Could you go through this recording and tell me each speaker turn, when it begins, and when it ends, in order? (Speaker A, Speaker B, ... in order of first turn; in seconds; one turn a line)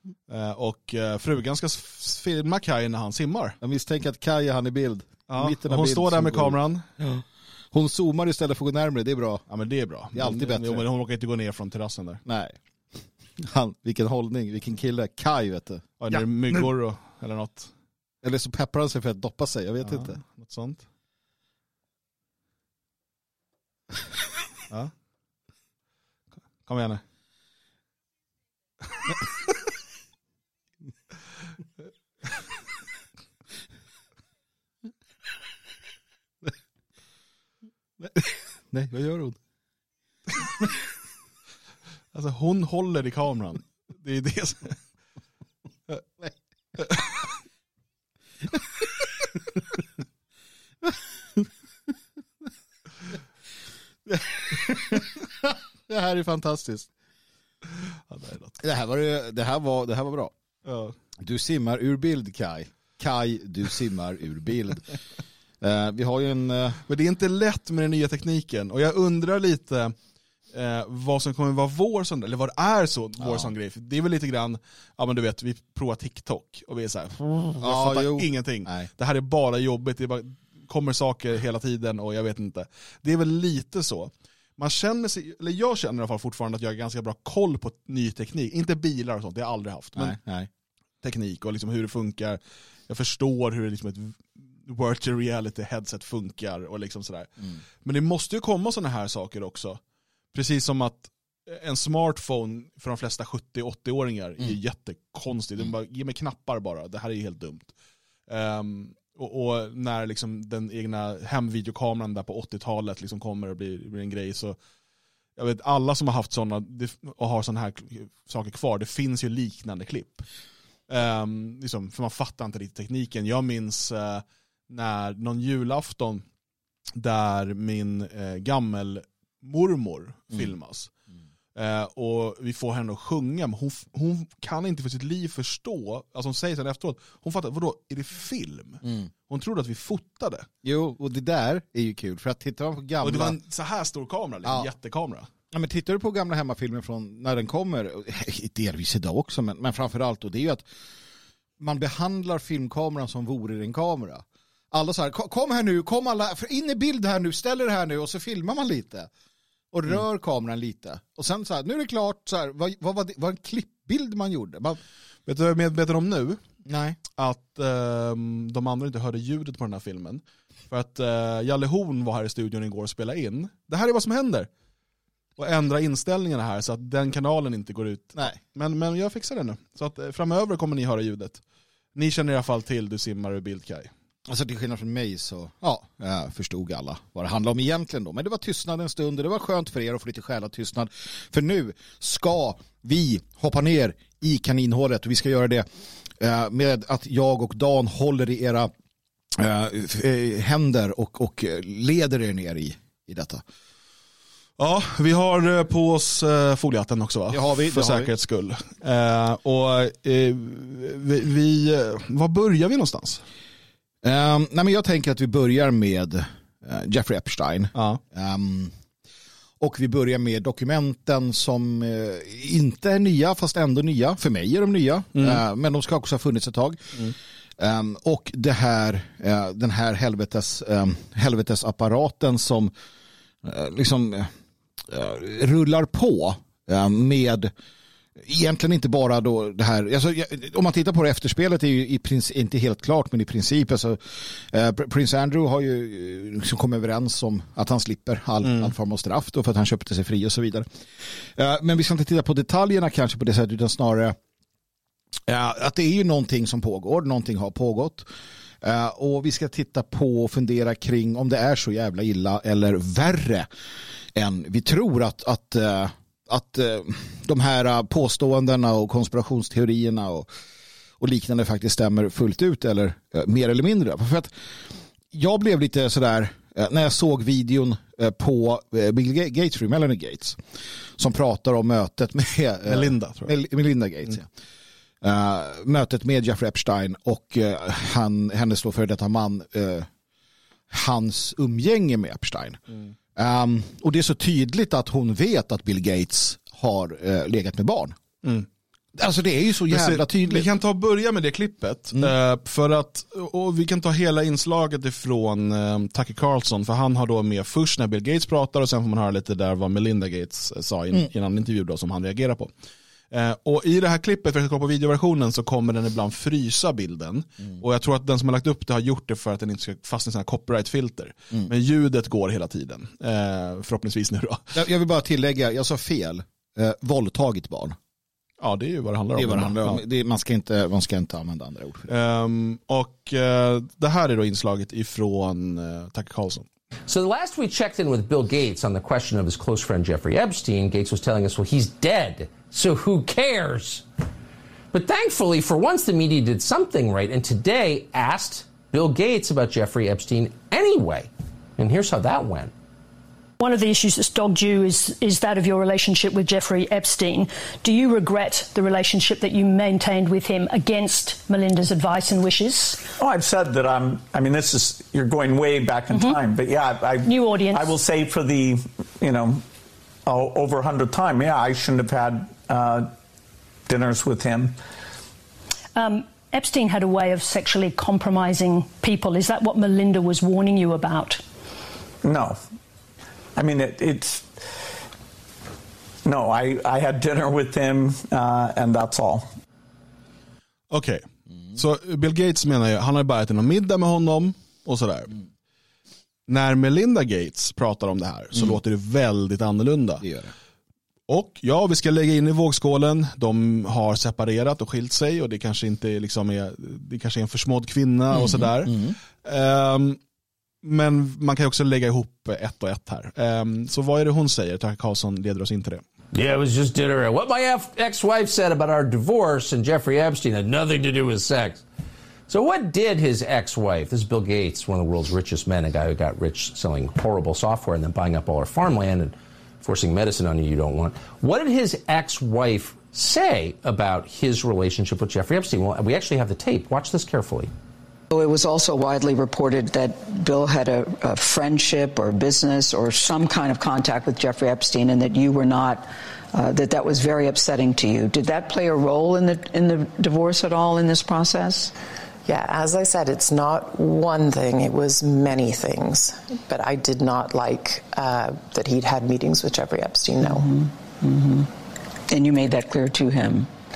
Speaker A: 0.3-3.6
Speaker B: 3.6-9.4
Speaker A: 5.3-6.9
Speaker A: 9.5-12.2
Speaker B: 10.1-10.8
Speaker B: 12.3-12.6
Speaker B: 13.4-16.7
Speaker A: 16.0-17.7
Speaker B: 18.2-20.2
Speaker A: 19.8-20.9
Speaker A: 26.6-27.0
Speaker B: 38.0-39.4
Speaker A: 42.1-44.8
Speaker B: 50.9-51.5
Speaker B: 54.1-56.9
Speaker A: 58.1-58.6
Speaker B: 58.6-60.3
Speaker A: 60.7-61.0
Speaker B: 61.2-64.9
Speaker B: 65.6-66.8
Speaker A: 66.9-69.9
Speaker A: 70.5-90.2
Speaker B: 73.2-73.5
Speaker B: 77.6-78.9
Speaker B: 90.0-90.5
Speaker A: 91.0-97.3
Speaker A: 97.8-99.8
Speaker A: 100.3-107.7
Speaker A: 108.3-114.6
Speaker A: 115.4-120.2
Speaker A: 120.9-126.2
Speaker A: 127.0-130.9
Speaker A: 131.6-140.5
Speaker B: 138.8-139.1
Speaker B: 140.6-143.4
Speaker A: 143.0-145.3
Speaker B: 144.4-144.7
Speaker B: 145.5-150.7
Speaker B: 151.6-159.1
Speaker B: 159.7-164.8
Speaker A: 165.3-166.4
Speaker B: 166.7-167.0
Speaker A: 167.2-174.5
Speaker A: 175.4-181.4
Speaker A: 181.9-183.9
Speaker B: 184.3-195.7
Speaker B: 196.2-198.7
Speaker B: 199.3-203.4
Speaker A: 204.6-213.2
Speaker B: 207.3-208.1
Speaker B: 214.0-218.7
Speaker A: 217.8-218.0
Speaker B: 219.6-227.0
Speaker A: 225.2-225.4
Speaker B: 227.6-232.7
Speaker B: 233.4-234.3
Speaker B: 234.9-237.5
Speaker B: 238.2-250.7
Speaker A: 248.4-248.7
Speaker B: 251.3-254.2
Speaker B: 255.3-258.1
Speaker B: 258.6-263.5
Speaker B: 264.1-270.3
Speaker B: 271.0-274.3
Speaker B: 275.1-280.4
Speaker B: 281.0-284.3
Speaker A: 282.7-283.3
Speaker B: 285.0-289.9
Speaker B: 290.7-292.6
Speaker B: 293.2-298.0
Speaker B: 298.9-300.5
Speaker A: 299.7-312.5
Speaker A: 313.1-324.5
Speaker B: 324.5-327.8
Speaker A: 328.4-329.8
Speaker B: 329.2-331.9
Speaker A: 331.9-336.5
Speaker C: 336.9-343.9
Speaker C: 344.7-352.5
Speaker D: 353.4-362.9
Speaker E: 363.0-369.4
Speaker D: 365.9-366.2
Speaker D: 367.1-367.7
Speaker E: 370.1-372.9
Speaker E: 373.7-374.6
Speaker D: 375.8-381.2
Speaker E: 382.0-382.4
Speaker E: 383.4-384.3
Speaker E: 386.1-389.3
Speaker A: 390.7-395.1
Speaker A: 396.3-400.0
Speaker B: 400.0-400.3
Speaker A: 401.1-410.0
Speaker B: 408.1-409.0
Speaker A: 410.6-415.8
Speaker C: 416.1-421.6
Speaker C: 422.3-437.5
Speaker F: 438.1-451.7
Speaker G: 452.3-460.5
Speaker F: 460.2-461.5
Speaker F: 462.1-463.5